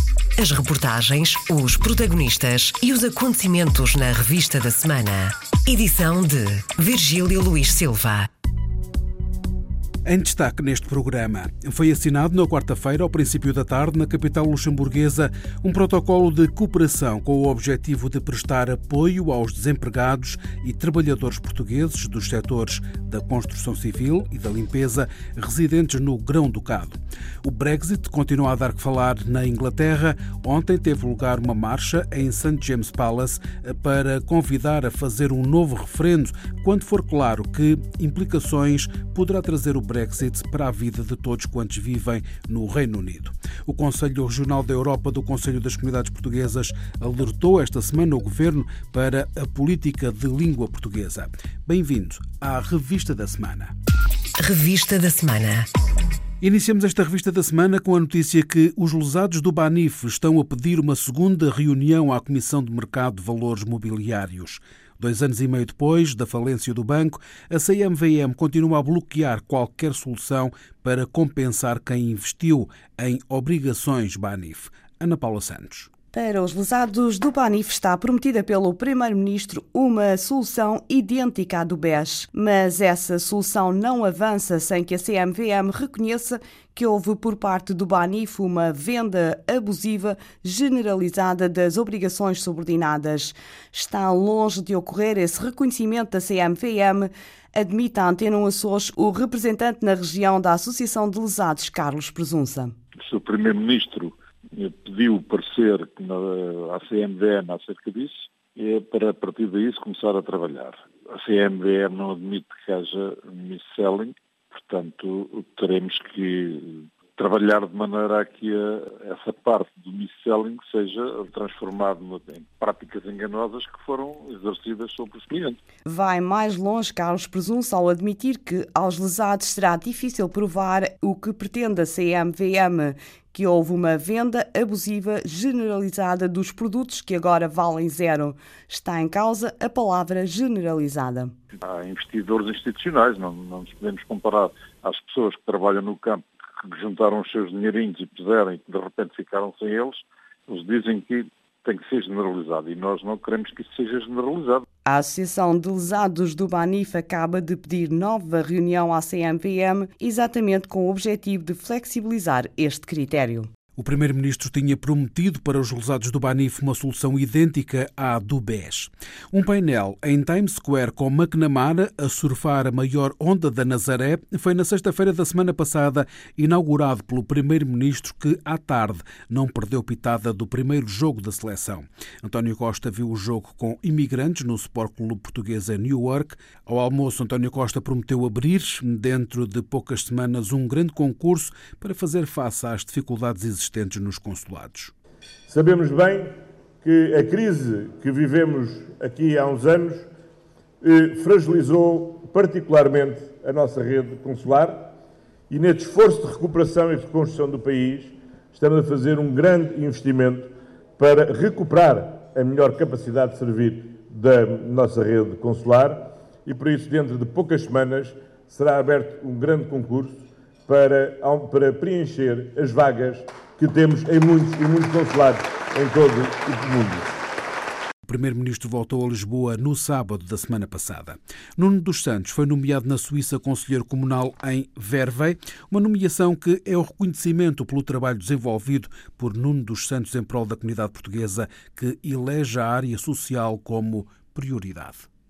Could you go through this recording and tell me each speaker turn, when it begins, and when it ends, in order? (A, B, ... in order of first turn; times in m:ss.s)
0:00.4-0:08.3 A
0:10.0-0:53.7 B
0:54.4-0:55.6 A
0:56.4-1:15.9 B
1:16.1-1:42.7 C
1:43.0-2:05.6 D
2:05.8-2:21.3 C
2:21.6-2:34.6 D
2:34.8-2:43.5 C
2:43.8-3:14.9 B
3:15.5-3:20.1 E
3:20.8-3:24.9 E
3:25.5-3:47.1 E
3:48.0-4:05.0 B